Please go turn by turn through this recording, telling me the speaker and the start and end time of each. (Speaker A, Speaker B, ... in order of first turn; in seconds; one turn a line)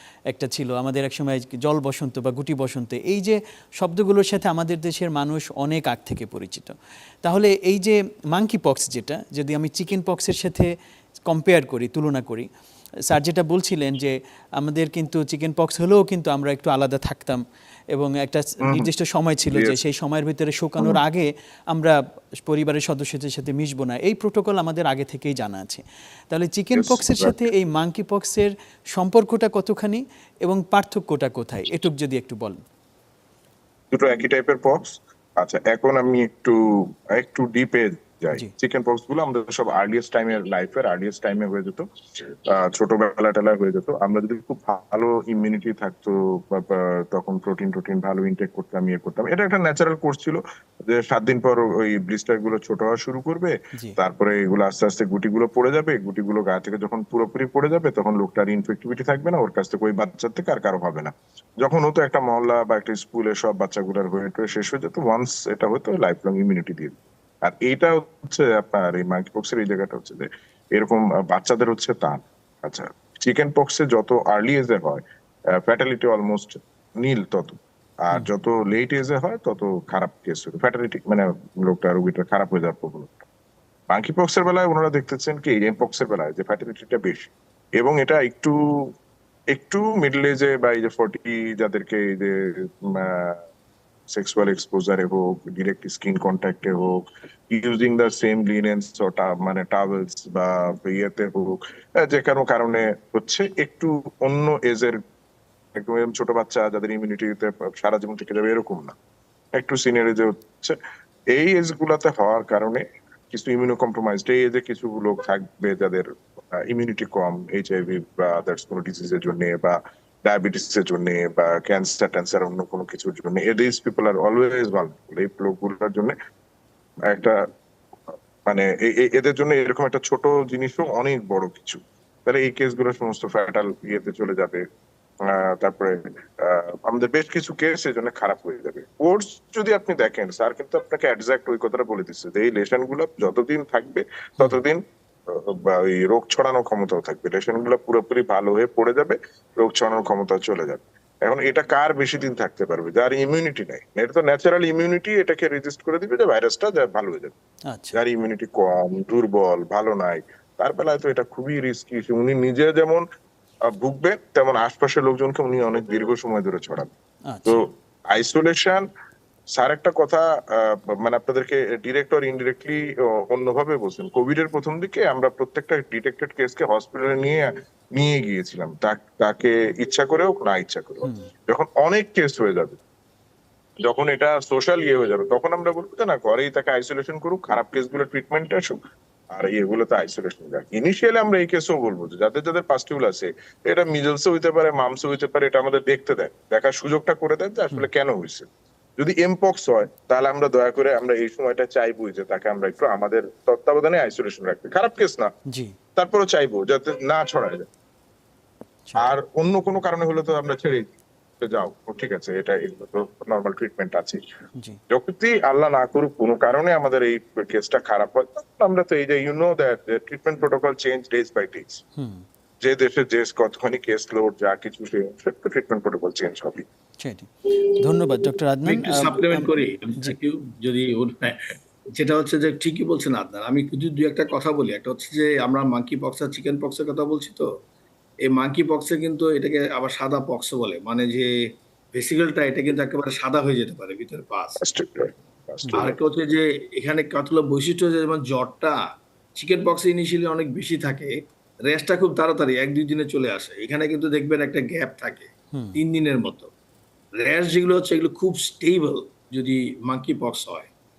Speaker A: 0.3-10.7
Speaker A: 11.2-12.5
Speaker A: 13.1-32.6
Speaker B: 18.6-18.9
Speaker B: 19.5-19.8
Speaker B: 26.7-27.4
Speaker B: 33.9-83.2
Speaker B: 83.9-88.9
Speaker B: 89.5-93.4
Speaker B: 94.1-105.0
Speaker B: 105.7-108.9
Speaker B: 109.5-110.8
Speaker B: 111.3-126.1
Speaker B: 127.1-127.5
Speaker B: 128.4-134.6
Speaker B: 135.2-157.3
Speaker A: 157.7-158.0
Speaker B: 157.9-163.1
Speaker B: 163.7-166.9
Speaker A: 167.3-167.6
Speaker B: 167.5-168.9
Speaker B: 169.6-182.8
Speaker A: 181.0-181.3
Speaker B: 183.8-188.8
Speaker B: 189.3-205.3
Speaker A: 205.5-205.8
Speaker B: 205.9-207.7
Speaker B: 208.9-214.2
Speaker B: 214.9-221.8
Speaker A: 222.0-222.2
Speaker B: 222.6-226.7
Speaker A: 227.0-230.2
Speaker C: 228.7-231.4
Speaker C: 231.9-237.5
Speaker C: 238.3-241.3
Speaker C: 241.9-244.6
Speaker B: 244.6-246.0
Speaker C: 245.7-248.8
Speaker C: 249.3-251.1
Speaker C: 251.7-256.5
Speaker A: 255.5-255.8
Speaker C: 257.2-260.7